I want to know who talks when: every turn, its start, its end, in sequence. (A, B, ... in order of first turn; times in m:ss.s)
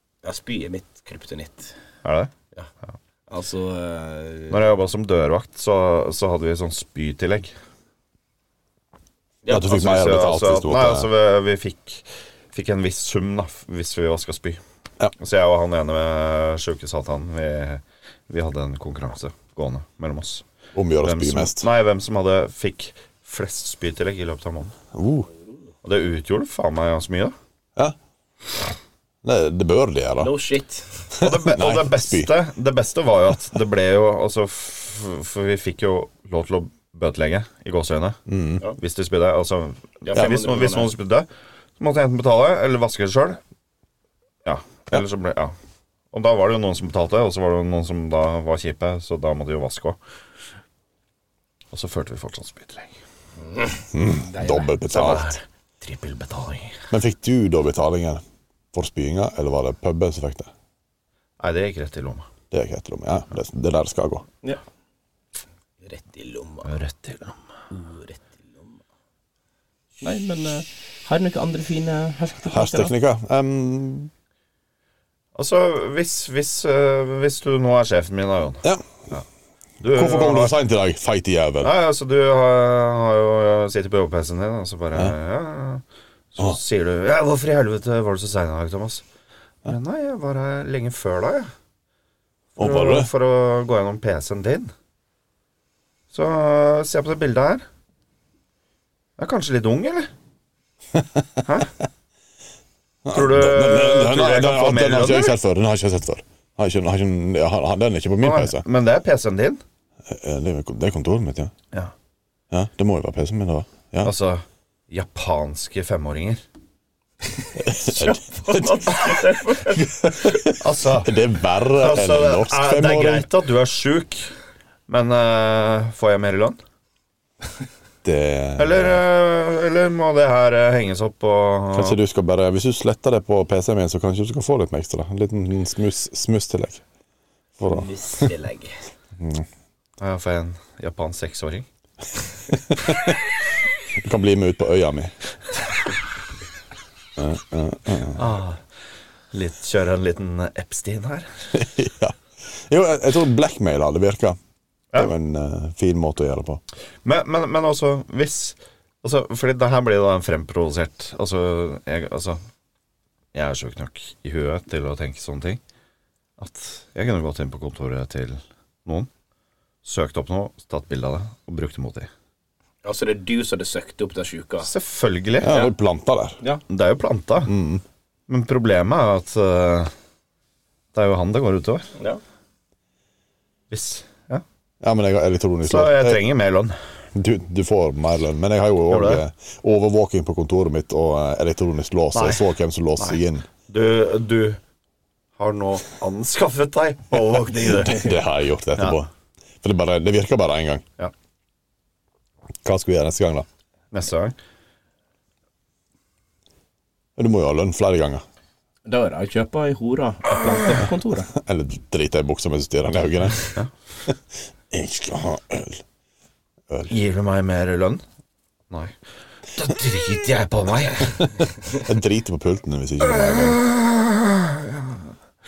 0:00.2-0:01.8 A
0:02.0-0:02.3 B
0:03.3-0:04.6 A
0:04.5-0:07.5 B
0:09.5-0:11.1 C
0:09.5-0:14.6 B
0:15.2-0:20.4 B
0:20.7-0:21.7 C
0:21.0-0:24.7 B
0:24.9-0:25.3 C
0:25.8-0:27.4 B
0:29.2-0:30.3 C
0:30.2-0:31.1 A
0:31.2-0:32.3 C
0:31.2-0:38.2 B
0:38.3-0:38.6 C
0:38.8-0:41.3 B
0:40.0-0:40.9 A
0:41.8-0:43.4 B
0:44.4-0:45.5 B
0:46.1-0:50.0 B
0:51.7-0:53.0 B
0:53.5-0:54.7 A
0:53.9-0:55.4 C
0:54.8-0:56.8 B
0:56.9-0:58.2 C
0:58.7-1:00.5 C
1:01.4-1:02.3 B
1:02.5-1:04.3 C
1:05.8-1:06.8 A
1:06.7-1:07.4 B
1:07.7-1:08.8 A
1:10.0-1:12.9 A
1:12.5-1:14.1 C
1:15.4-1:19.2 B
1:19.8-1:20.5 B
1:19.9-1:21.7 C
1:21.6-1:29.0 B
1:29.6-1:31.5 B
1:32.6-1:34.7 B
1:32.6-1:33.1 C
1:36.1-1:37.6 B
1:39.2-1:40.1 B
1:41.0-1:41.4 C
1:41.5-1:41.7 B
1:43.0-1:48.6 C
1:43.1-1:45.4 B
1:48.2-1:49.6 B
1:50.1-1:51.5 C
1:52.5-1:54.1 C
1:54.0-1:56.4 B
1:57.6-1:58.9 C
1:57.7-1:59.9 A
1:59.8-2:03.3 C
2:00.6-2:01.2 B
2:01.7-2:04.3 B
2:04.9-2:06.6 B
2:08.0-2:09.0 C
2:08.6-2:12.0 B
2:11.7-2:16.8 C
2:17.6-2:18.3 C
2:17.7-2:18.8 A
2:19.2-2:19.5 C
2:20.0-2:21.7 B
2:22.7-2:23.1 C
2:23.9-2:25.1 C
2:27.2-2:28.3 C
2:28.2-2:28.6 B
2:29.3-2:31.5 B
2:31.5-2:34.4 C
2:35.0-2:36.6 C
2:37.0-2:42.4 B
2:43.3-2:45.6 B
2:46.4-2:49.1 B
2:49.8-2:52.1 B
2:52.8-2:54.7 A
2:54.6-2:55.6 B
2:55.4-2:56.4 C
2:56.7-2:57.5 B
2:57.5-2:57.8 C
2:58.3-2:59.9 B
3:00.9-3:01.9 B
3:03.7-3:04.4 B
3:04.8-3:06.2 C
3:05.6-3:06.8 B
3:07.1-3:13.5 C
3:08.9-3:09.2 B
3:12.1-3:12.5 B
3:13.0-3:14.6 B
3:15.4-3:18.1 B
3:17.8-3:19.1 C
3:19.6-3:20.8 C
3:22.6-3:23.5 C
3:23.9-3:24.4 B
3:27.2-3:28.2 C
3:28.9-3:31.3 A
3:31.3-3:33.4 C
3:34.7-3:35.8 C
3:36.9-3:38.0 B
3:39.5-3:41.4 B
3:41.7-3:43.6 C
3:43.3-3:44.9 B